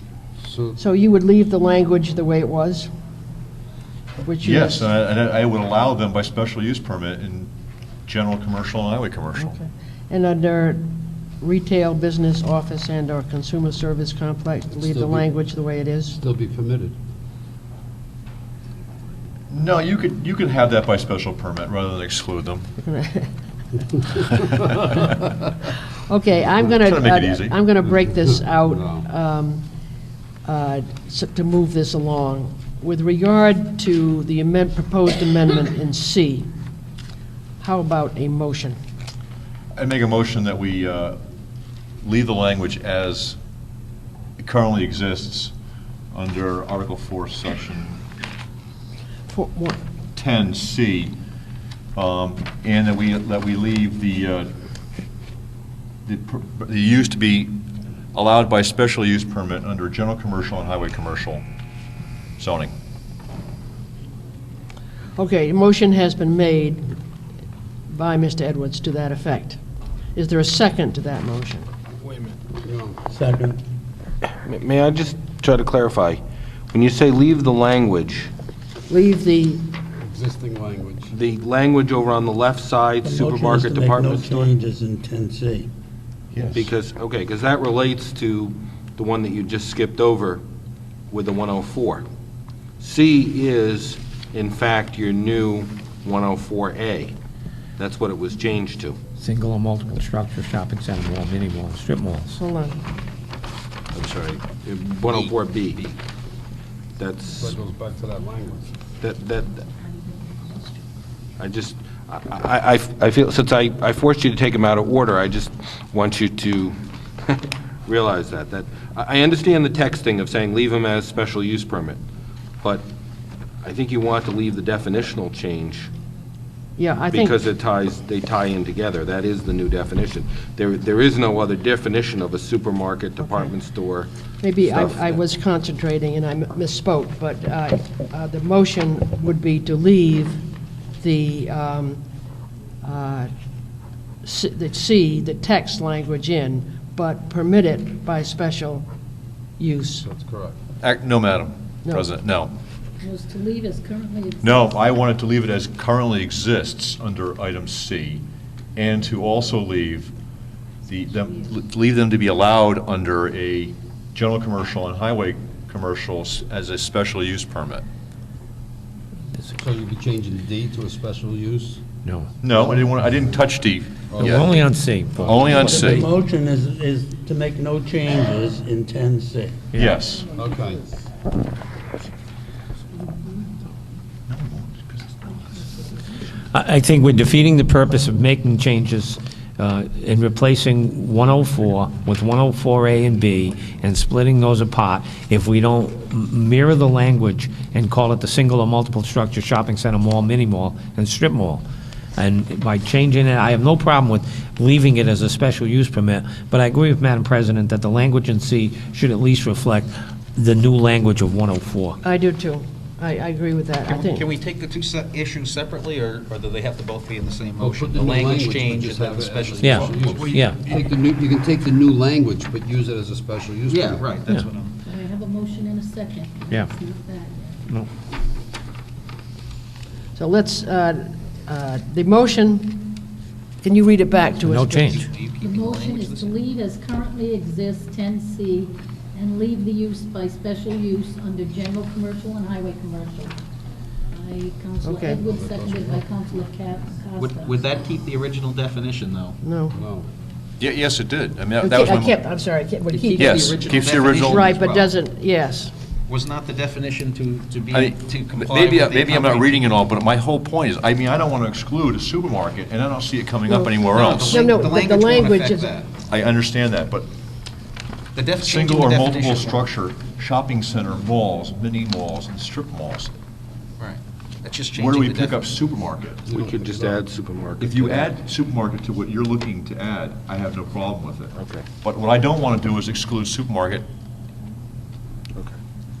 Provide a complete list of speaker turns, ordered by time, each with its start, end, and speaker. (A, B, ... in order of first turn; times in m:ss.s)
0:00.4-0:00.8 A
0:00.8-0:02.9 B
0:04.2-0:04.8 B
0:04.4-0:07.5 C
0:08.0-0:09.5 C
0:09.4-0:10.8 B
0:11.4-0:16.2 B
0:14.8-0:15.3 A
0:16.2-0:17.0 A
0:19.5-0:22.6 C
0:22.8-0:23.3 B
0:24.4-0:24.8 C
0:26.1-0:29.6 B
0:26.8-0:27.6 C
0:30.4-0:36.5 B
0:37.6-0:38.8 B
0:39.8-0:41.2 C
0:42.0-0:43.4 C
0:44.4-0:45.5 C
0:46.1-0:48.0 C
0:49.3-0:49.8 B
0:50.1-0:51.1 C
0:52.0-0:54.5 C
0:56.0-0:57.6 C
0:58.1-1:01.4 C
1:02.4-1:02.7 C
1:05.2-1:06.8 B
1:07.9-1:09.6 B
1:10.1-1:11.7 B
1:12.5-1:13.1 A
1:13.1-1:13.6 D
1:14.2-1:16.2 E
1:16.7-1:18.3 E
1:18.9-1:19.7 B
1:20.0-1:21.1 A
1:21.1-1:24.5 E
1:23.0-1:25.7 D
1:26.3-1:26.7 C
1:26.5-1:30.4 E
1:31.1-1:32.0 E
1:32.8-1:37.1 E
1:37.8-1:39.0 E
1:39.2-1:42.4 F
1:42.4-1:42.8 B
1:43.9-1:46.0 E
1:47.0-1:47.6 E
1:47.4-1:48.7 A
1:49.0-1:49.6 E
1:50.0-1:50.8 G
1:51.4-2:02.0 E
2:02.6-2:02.9 E
2:03.6-2:05.9 E
2:06.8-2:07.4 B
2:07.1-2:14.1 E
2:13.2-2:13.5 B
2:14.4-2:20.4 B
2:14.6-2:15.2 E
2:21.0-2:22.0 B
2:22.8-2:23.3 B
2:24.2-2:28.8 B
2:29.6-2:30.0 B
2:30.0-2:30.6 A
2:30.8-2:32.5 C
2:33.0-2:34.8 G
2:34.4-2:38.2 C
2:38.8-2:40.1 C
2:40.9-2:47.8 C
2:49.6-2:51.8 A
2:52.0-2:52.3 F
2:52.4-2:54.5 C
2:54.1-2:54.4 A
2:54.2-2:56.0 F
2:55.2-2:56.1 C
2:55.5-2:59.6 D
2:59.7-3:00.0 F
2:59.8-3:00.3 C
3:00.3-3:00.9 A
3:04.3-3:05.1 C
3:06.5-3:21.6 F
3:22.2-3:32.0 F
3:32.0-3:34.2 B
3:33.9-3:40.9 H
3:37.6-3:44.1 A
3:39.6-3:40.6 F
3:43.7-3:44.7 H
3:44.8-3:47.6 G
3:50.2-3:52.9 B
3:53.6-3:55.1 B
3:54.4-3:55.0 F
3:54.9-3:56.3 H
3:55.4-4:03.4 G
4:04.1-4:07.7 G
4:04.8-4:05.2 B
4:05.3-4:06.1 A
4:07.2-4:09.4 H
4:09.4-4:09.8 B
4:09.7-4:10.1 A
4:10.6-4:12.1 C
4:11.6-4:15.7 B
4:12.9-4:14.9 H
4:13.2-4:14.5 C
4:16.1-4:19.7 H
4:17.7-4:24.6 C
4:23.4-4:25.7 B
4:23.8-4:25.9 H
4:26.1-4:27.1 C
4:28.1-4:29.6 H
4:28.4-4:33.1 C
4:33.8-4:35.4 H
4:34.7-4:36.2 C
4:36.3-4:37.0 A
4:36.3-4:38.1 E
4:37.6-4:43.8 C
4:41.3-4:41.6 E